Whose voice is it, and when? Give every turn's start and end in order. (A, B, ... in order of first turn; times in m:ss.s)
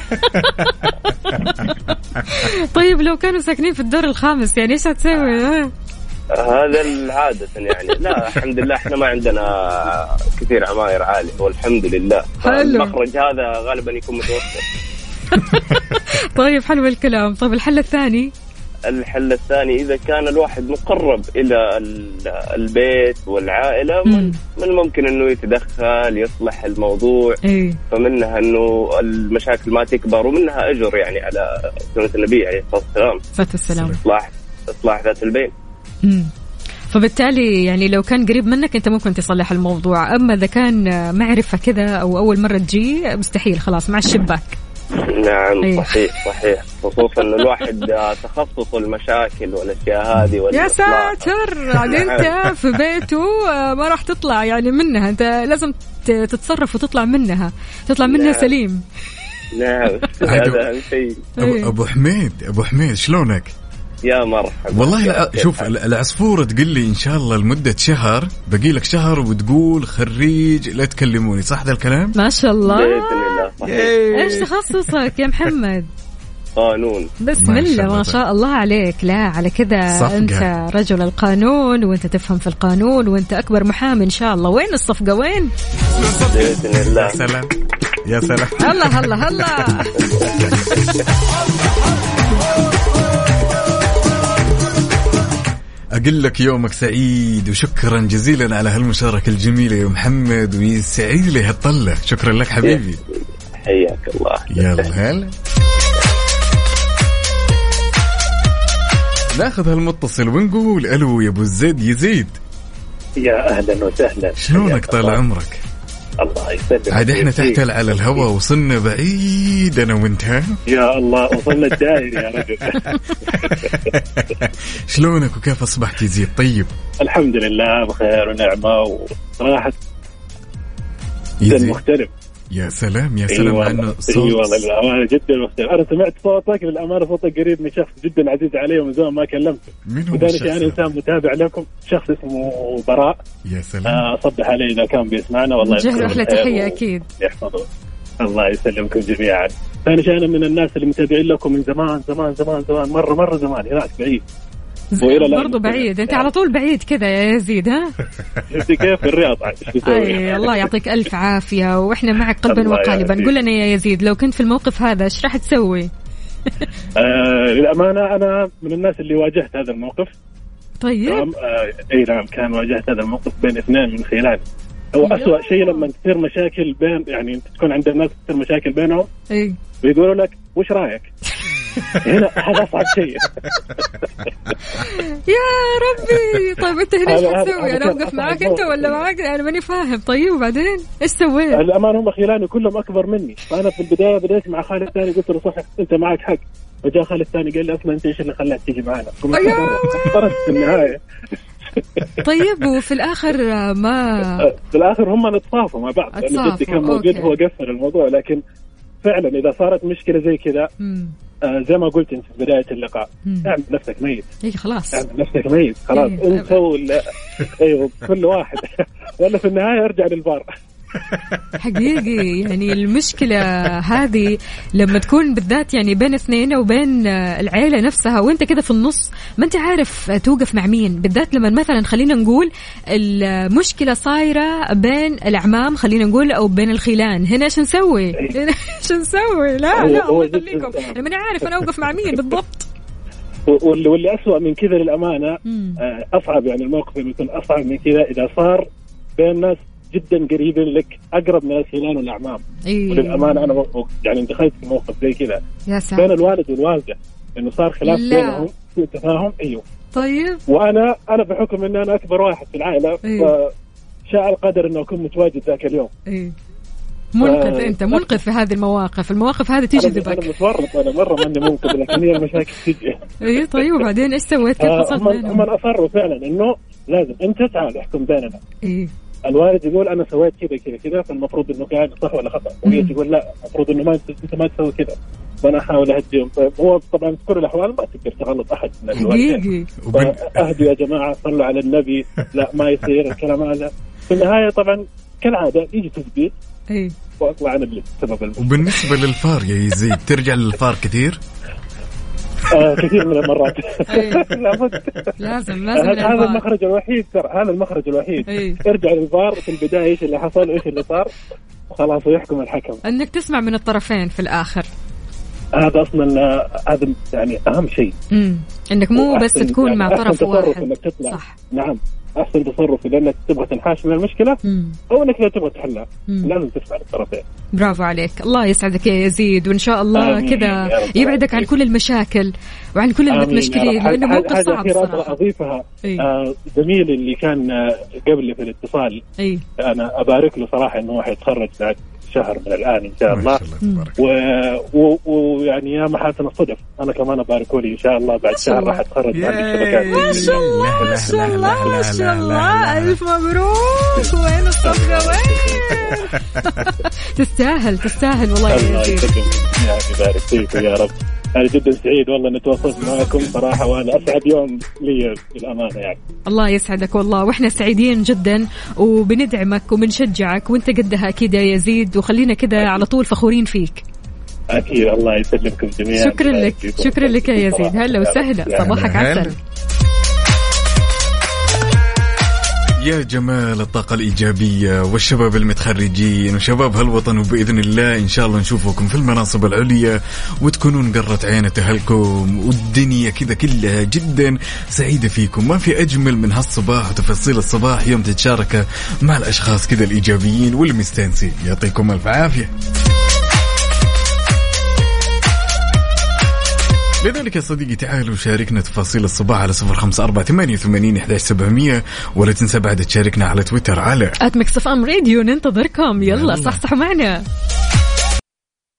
0:00.3-0:05.7 A
0:06.3-0:14.6 B
0:12.4-0:12.9 A
0:15.3-0:18.3 A
0:18.9-0:27.4 B
0:24.1-0:24.4 A
0:27.4-0:27.8 A
0:27.9-0:33.2 B
0:33.4-0:34.0 A
0:33.7-0:34.0 C
0:34.0-0:35.5 B
0:36.0-0:36.3 A
0:36.9-0:44.6 A
0:45.0-0:52.2 B
0:45.6-0:46.0 A
0:50.5-0:58.8 A
0:58.0-0:58.5 B
0:59.5-1:01.3 B
1:00.2-1:00.7 C
1:01.4-1:01.7 A
1:01.4-1:03.5 C
1:04.0-1:05.7 B
1:04.7-1:12.1 C
1:12.2-1:13.3 A
1:12.6-1:14.4 B
1:13.6-1:14.9 C
1:14.1-1:15.9 A
1:16.6-1:17.1 B
1:17.2-1:25.5 A
1:17.4-1:18.2 C
1:19.9-1:20.5 C
1:26.2-1:27.2 B
1:26.7-1:27.5 C
1:28.0-1:29.7 C
1:28.6-1:30.5 A
1:30.4-1:30.8 C
1:36.0-1:43.0 C
1:42.6-1:44.9 B
1:44.5-1:45.3 C
1:49.3-1:52.4 C
1:53.2-1:55.1 D
1:54.4-1:55.6 C
1:56.2-1:57.6 D
1:56.9-2:00.5 C
2:00.7-2:03.8 D
2:01.4-2:02.5 C
2:02.8-2:03.1 A
2:03.3-2:06.7 C
2:07.0-2:09.8 D
2:11.4-2:11.8 C
2:11.5-2:12.1 D
2:12.5-2:14.7 C
2:13.3-2:19.6 D
2:19.9-2:20.8 C
2:20.1-2:23.2 D
2:23.4-2:24.0 C
2:23.9-2:27.7 D
2:25.6-2:27.0 A
2:28.2-2:34.2 D
2:35.0-2:37.9 A
2:35.0-2:36.3 D
2:38.5-2:40.7 D
2:39.8-2:45.9 A
2:42.5-2:43.3 D
2:47.0-2:50.1 D
2:50.8-2:51.3 A
2:51.0-2:54.4 D
2:54.9-2:59.1 D
2:55.0-2:55.9 A
2:59.3-2:59.6 A
2:59.8-3:01.1 D
3:02.0-3:03.9 D
3:04.7-3:11.6 A
3:07.0-3:09.0 D
3:11.5-3:21.0 D
3:19.3-3:20.1 A
3:21.7-3:22.1 D
3:22.2-3:24.4 A
3:24.4-3:28.4 D
3:26.1-3:27.3 A
3:29.0-3:30.7 D
3:30.8-3:31.1 A
3:31.5-3:34.2 D
3:33.2-3:33.5 A
3:34.4-3:35.0 A
3:34.9-3:38.7 D
3:35.9-3:36.5 A
3:39.2-3:40.4 D
3:41.6-4:02.7 A
3:59.7-4:01.4 D
4:03.5-4:08.6 D
4:05.4-4:05.8 A
4:09.2-4:15.4 D
4:12.7-4:13.6 A
4:15.7-4:16.2 A
4:16.0-4:19.6 D
4:17.8-4:18.5 A
4:19.9-4:20.4 A
4:20.5-4:23.5 D
4:23.0-4:23.3 A
4:24.1-4:25.9 D
4:26.1-4:26.3 A
4:27.1-4:30.3 A
4:27.2-4:28.1 D
4:29.7-4:33.8 D
4:33.2-4:35.4 A
4:34.6-4:38.4 D
4:38.6-4:38.9 A
4:39.3-4:56.3 D
4:42.6-4:42.9 A
4:48.9-4:49.7 A
4:49.8-4:50.7 C
4:57.2-4:58.9 D
4:58.4-5:01.2 C
5:02.5-5:05.1 D
5:03.9-5:04.3 A
5:05.2-5:06.4 A
5:05.7-5:11.1 D
5:08.3-5:08.6 A
5:11.7-5:12.8 D
5:12.8-5:14.7 A
5:15.6-5:17.9 D
5:18.1-5:21.3 A
5:19.0-5:27.2 D
5:24.4-5:24.8 A
5:26.1-5:26.3 A
5:27.6-5:35.1 A
5:29.9-5:31.5 D
5:33.1-5:39.0 D
5:39.6-5:43.4 D
5:43.1-5:44.0 C
5:43.6-5:43.9 A
5:44.0-5:51.1 D
5:48.3-5:48.8 A
5:49.1-5:53.0 C
5:49.8-5:59.1 A
5:54.6-5:56.0 D
5:58.5-6:06.0 D
6:06.3-6:13.8 A
6:14.5-6:18.9 D
6:15.9-6:19.3 A
6:18.6-6:19.3 C
6:22.8-6:42.5 C
6:47.0-6:54.2 C
6:54.2-6:57.2 A
6:56.0-6:56.6 C